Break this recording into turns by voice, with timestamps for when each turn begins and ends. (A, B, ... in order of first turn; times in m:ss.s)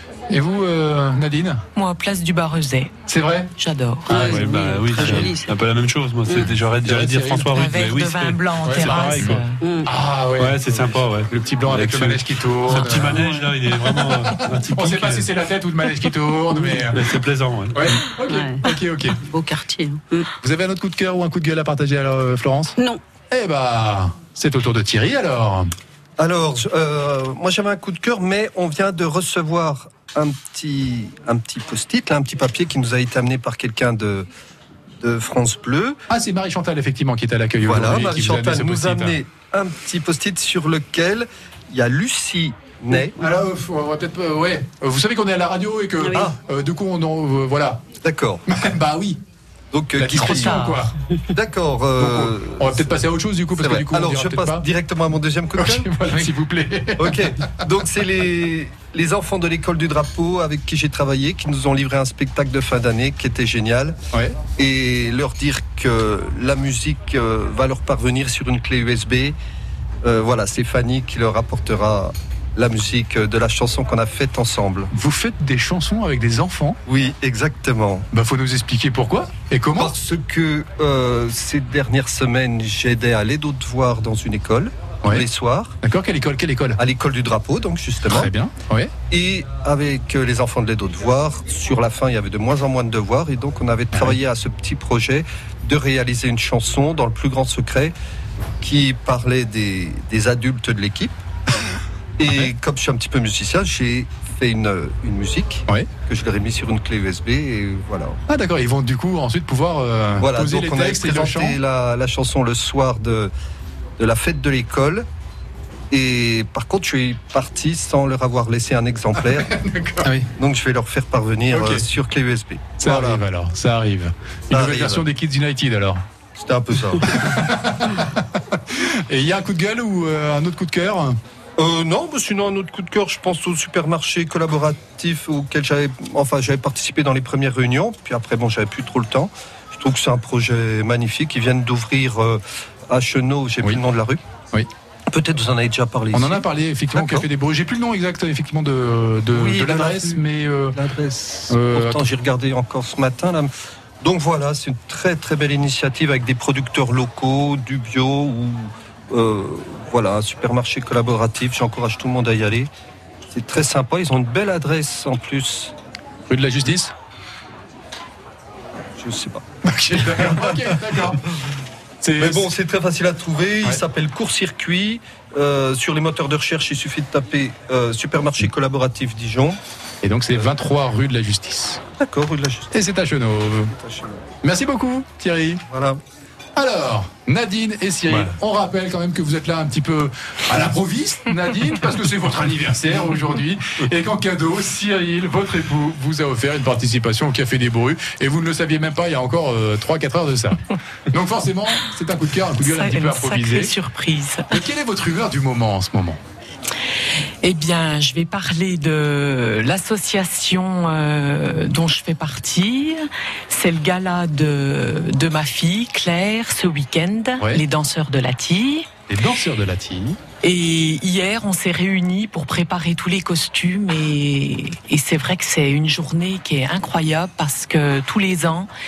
0:00.3-0:01.6 A
0:01.8-0:02.9 B
0:03.1-0:03.5 A
0:03.6-0:04.4 B
0:04.1-0:04.4 A
0:04.1-0:05.6 C
0:04.2-0:09.4 D
0:06.3-0:06.6 C
0:06.8-0:07.5 A
0:07.5-0:09.6 B
0:08.6-0:09.3 A
0:09.6-0:09.9 C
0:09.8-0:13.2 A
0:10.4-0:15.3 D
0:13.1-0:13.4 C
0:13.9-0:17.2 A
0:16.9-0:17.8 D
0:17.7-0:19.2 A
0:18.3-0:18.7 C
0:19.2-0:20.3 C
0:20.4-0:22.8 A
0:23.3-0:25.7 A
0:26.2-0:34.3 E
0:35.0-0:36.0 E
0:36.1-0:39.2 A
0:37.6-0:43.2 E
0:42.9-0:47.9 A
0:46.0-0:46.3 C
0:48.0-0:48.4 E
0:48.5-0:49.2 A
0:49.7-0:50.8 E
0:49.9-0:51.0 A
0:50.2-0:50.8 B
0:51.3-0:52.8 E
0:52.0-0:54.7 A
0:53.6-0:55.9 E
0:55.6-0:57.6 A
0:57.0-1:04.0 E
1:04.6-1:09.4 E
1:10.0-1:14.9 E
1:14.9-1:16.8 A
1:16.9-1:18.1 E
1:18.1-1:20.0 A
1:19.8-1:25.8 E
1:25.8-1:26.8 A
1:26.8-1:28.3 E
1:28.1-1:28.9 A
1:29.1-1:37.9 E
1:33.9-1:34.2 A
1:38.6-1:41.2 E
1:42.2-1:48.2 E
1:48.3-1:51.6 A
1:50.2-1:53.3 E
1:54.0-1:55.1 E
1:55.9-1:59.5 E
1:59.2-2:00.1 A
2:00.1-2:03.2 E
2:01.5-2:01.9 A
2:02.8-2:06.0 A
2:04.5-2:05.1 E
2:06.4-2:07.1 E
2:06.9-2:11.2 A
2:11.6-2:24.2 E
2:25.1-2:26.4 E
2:26.1-2:30.8 A
2:27.0-2:27.2 E
2:29.3-2:33.5 E
2:31.5-2:32.1 A
2:34.0-2:42.7 E
2:43.3-2:45.7 E
2:46.3-2:46.9 A
2:49.0-2:49.4 E
2:49.6-2:51.3 A
2:52.0-2:52.5 A
2:52.2-2:59.6 E
3:00.0-3:01.8 A
3:02.0-3:02.7 E
3:02.7-3:03.8 A
3:03.7-3:04.3 E
3:04.4-3:05.6 A
3:05.7-3:06.0 E
3:06.6-3:20.6 A
3:21.1-3:23.8 A
3:22.6-3:24.5 B
3:24.5-3:26.2 A
3:27.4-3:38.9 B
3:39.1-3:40.2 A
3:40.4-3:48.7 B